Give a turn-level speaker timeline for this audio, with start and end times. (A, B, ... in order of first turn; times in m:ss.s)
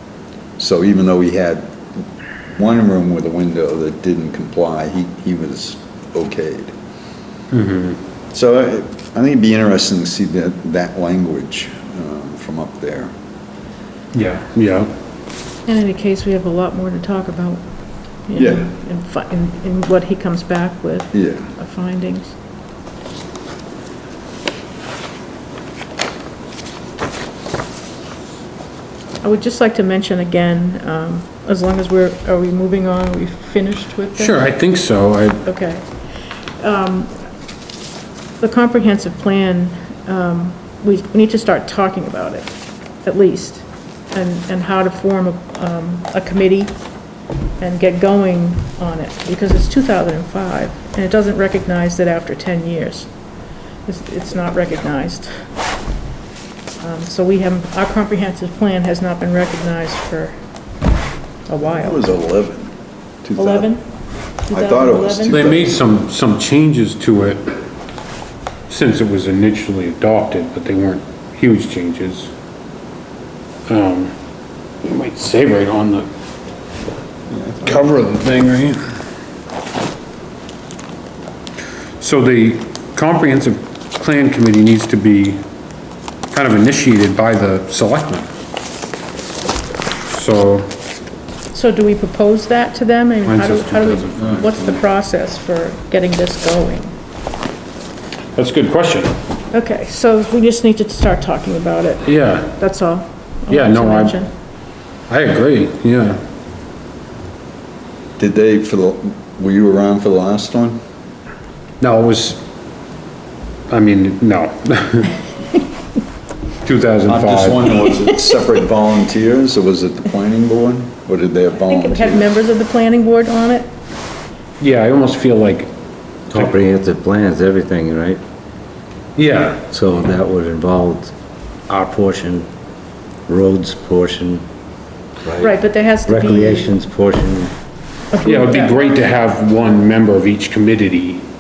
0:00.6-0:01.8 A
0:02.5-0:06.7 A
0:07.5-0:08.0 B
0:08.3-0:13.1 A
0:14.1-0:14.9 B
0:15.7-0:17.6 C
0:18.3-0:22.3 C
0:18.4-0:18.7 A
0:21.1-0:21.5 A
0:29.2-0:34.5 C
0:34.2-0:35.4 B
0:35.5-0:35.8 C
0:36.6-0:37.1 C
0:38.4-0:42.5 C
0:43.0-0:46.8 C
0:47.6-0:53.1 C
0:53.9-0:55.3 C
0:56.8-1:00.3 C
1:01.5-1:02.1 C
1:01.6-1:02.7 A
1:03.2-1:03.7 A
1:03.4-1:03.8 C
1:04.5-1:05.6 C
1:04.5-1:05.8 A
1:05.3-1:07.6 B
1:08.7-1:12.3 B
1:13.7-1:14.1 B
1:14.8-1:16.1 B
1:17.3-1:18.0 A
1:17.7-1:18.8 B
1:22.0-1:25.4 B
1:26.3-1:28.3 B
1:30.1-1:30.7 B
1:31.5-1:36.9 C
1:33.3-1:34.5 B
1:38.4-1:39.2 B
1:39.5-1:44.3 C
1:42.0-1:42.5 B
1:43.5-1:44.2 B
1:45.1-1:46.2 B
1:48.2-1:50.8 A
1:51.8-1:52.4 B
1:53.7-1:55.1 B
1:56.6-1:57.8 B
1:57.1-2:02.4 A
2:01.6-2:03.7 C
2:04.6-2:05.7 B
2:06.3-2:08.2 D
2:09.2-2:09.6 B
2:09.7-2:11.1 D
2:11.7-2:12.5 D
2:13.3-2:14.4 D
2:15.2-2:17.5 D
2:15.4-2:16.7 C
2:18.1-2:18.8 C
2:18.2-2:21.2 B